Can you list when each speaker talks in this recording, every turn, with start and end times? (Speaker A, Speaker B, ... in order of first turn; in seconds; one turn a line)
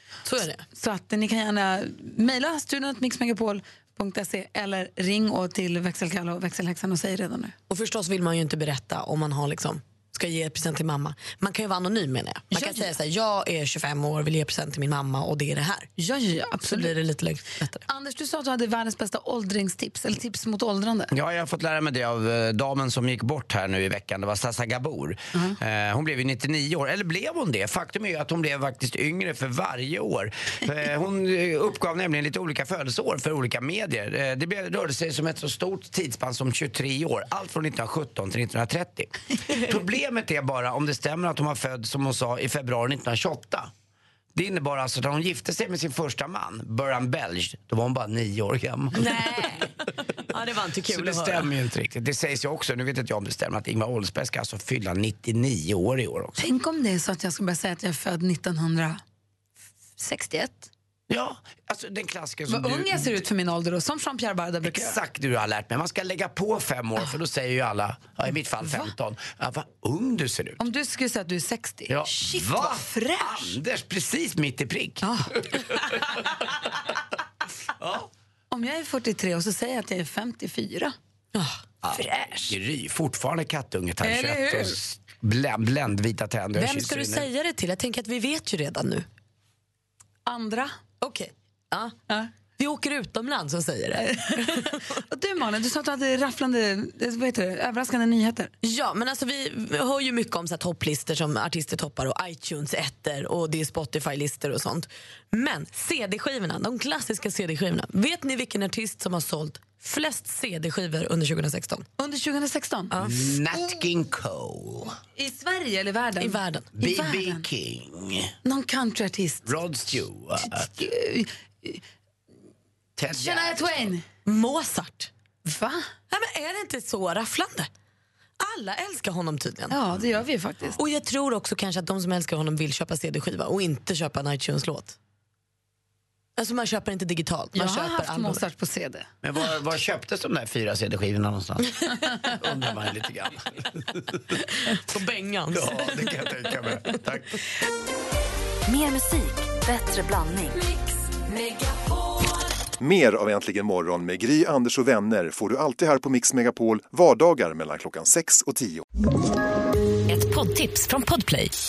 Speaker A: 0.2-0.6
Speaker B: 0.7-7.5
Speaker A: 7.7-15.9
Speaker B: 12.5-12.9
Speaker B: 16.0-16.9
Speaker A: 16.6-17.8
Speaker B: 17.9-21.1
Speaker C: 21.1-43.7
Speaker C: 44.3-49.5
Speaker A: 49.0-49.7
Speaker A: 50.3-51.5
Speaker C: 50.9-56.4
Speaker B: 56.4-59.0
Speaker B: 60.0-60.7
Speaker C: 61.1-63.2
Speaker B: 62.5-65.0
Speaker C: 64.6-70.6
Speaker B: 68.6-68.9
Speaker B: 70.6-73.5
Speaker C: 71.9-75.8
Speaker B: 78.5-81.0
Speaker A: 81.3-81.6
Speaker C: 81.8-87.3
Speaker B: 84.0-84.8
Speaker A: 86.6-89.0
Speaker B: 90.3-90.8
Speaker A: 91.0-92.0
Speaker A: 92.6-94.8
Speaker B: 94.1-98.5
Speaker A: 98.6-111.8
Speaker B: 112.0-112.9
Speaker A: 112.9-113.2
Speaker C: 113.0-115.0
Speaker B: 115.2-117.4
Speaker A: 116.2-116.7
Speaker C: 116.7-118.3
Speaker B: 118.4-119.5
Speaker C: 119.5-120.7
Speaker B: 120.4-121.8
Speaker C: 123.0-123.8
Speaker B: 123.1-124.0
Speaker A: 124.3-125.1
Speaker B: 125.5-125.8
Speaker A: 126.1-127.7
Speaker A: 128.4-129.8
Speaker B: 129.7-130.8
Speaker A: 130.8-135.0
Speaker A: 136.4-138.4
Speaker B: 137.6-139.1
Speaker C: 139.2-144.4
Speaker A: 144.7-146.4
Speaker C: 145.5-147.4
Speaker D: 148.7-150.7
Speaker D: 151.4-152.3
Speaker E: 152.8-158.8
Speaker D: 160.1-161.5